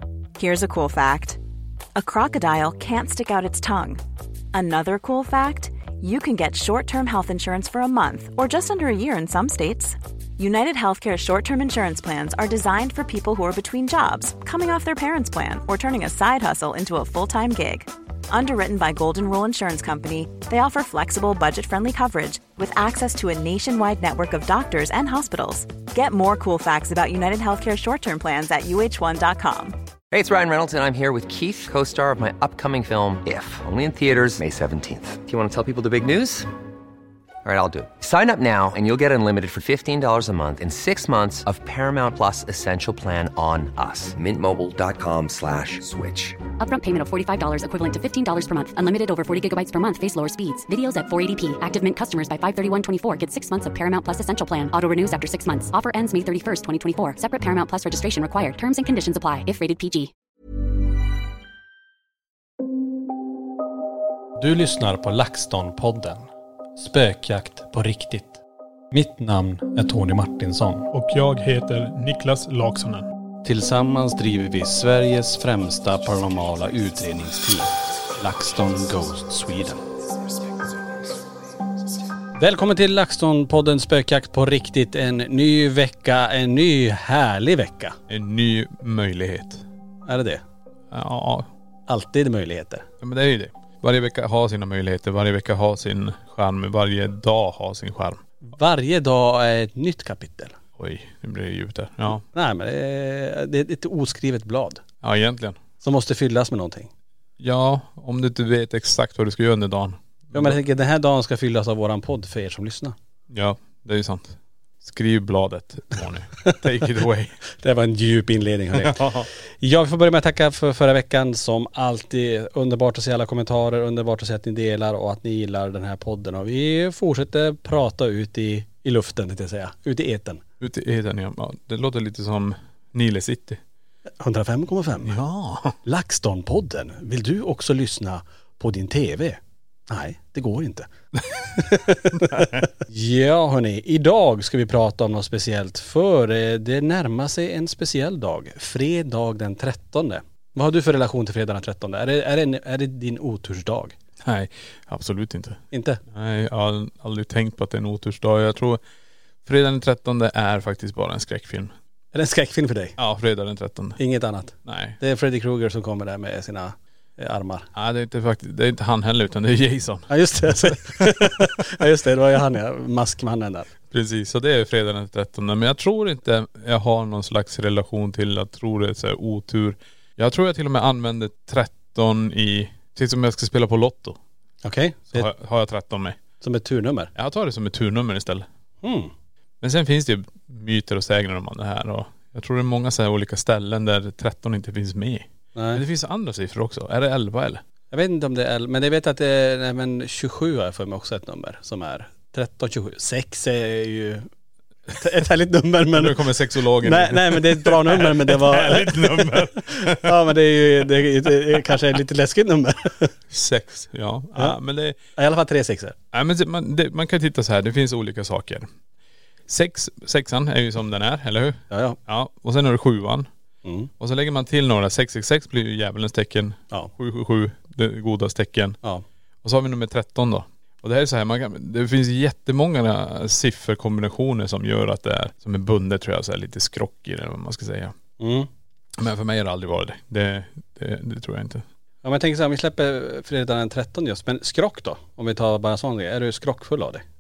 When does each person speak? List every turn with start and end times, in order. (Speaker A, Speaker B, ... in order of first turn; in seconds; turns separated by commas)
Speaker A: 0.4-1.4, Speaker A: 2.0-4.0, Speaker A: 4.5-29.8, Speaker B: 30.1-36.5, Speaker B: 37.4-46.4, Speaker C: 46.6-60.1, Speaker D: 64.4-68.4, Speaker D: 68.9-70.9, Speaker E: 70.9-73.1, Speaker D: 73.4-79.8, Speaker D: 82.4-88.0, Speaker E: 88.1-89.7, Speaker D: 90.1-90.4, Speaker E: 90.9-91.5, Speaker D: 91.9-92.9, Speaker E: 93.0-98.2, Speaker D: 98.5-100.6, Speaker E: 100.8-102.2, Speaker D: 102.3-104.8, Speaker E: 105.0-105.6, Speaker D: 105.8-106.9, Speaker E: 107.4-110.6, Speaker D: 110.3-113.0, Speaker E: 113.3-117.4, Speaker D: 117.6-119.1, Speaker E: 118.8-119.3, Speaker D: 119.6-130.4, Speaker E: 130.6-133.6, Speaker D: 134.2-135.1, Speaker E: 135.1-135.8, Speaker D: 135.8-140.9, Speaker D: 141.6-154.0, Speaker E: 154.2-158.8, Speaker D: 155.7-156.0, Speaker E: 159.4-161.7, Speaker D: 162.1-163.0, Speaker E: 163.0-164.0, Speaker D: 164.0-167.7, Speaker E: 164.7-165.0, Speaker E: 167.8-171.6, Speaker D: 170.1-173.7, Speaker E: 173.9-184.2, Speaker D: 184.6-185.3, Speaker E: 185.1-186.2, Speaker D: 186.4-187.1, Speaker E: 187.2-188.5, Speaker D: 188.8-189.1, Speaker E: 189.6-197.6, Speaker D: 195.6-195.8, Speaker D: 197.9-204.3, Speaker D: 204.9-213.1, Speaker E: 205.9-210.2, Speaker E: 213.3-215.0, Speaker D: 215.2-216.0, Speaker E: 216.1-218.7, Speaker E: 219.5-223.3, Speaker D: 221.7-222.0, Speaker D: 223.7-223.9, Speaker E: 224.0-228.8, Speaker E: 229.4-237.9, Speaker D: 238.2-238.5, Speaker E: 239.0-241.6, Speaker D: 242.0-247.0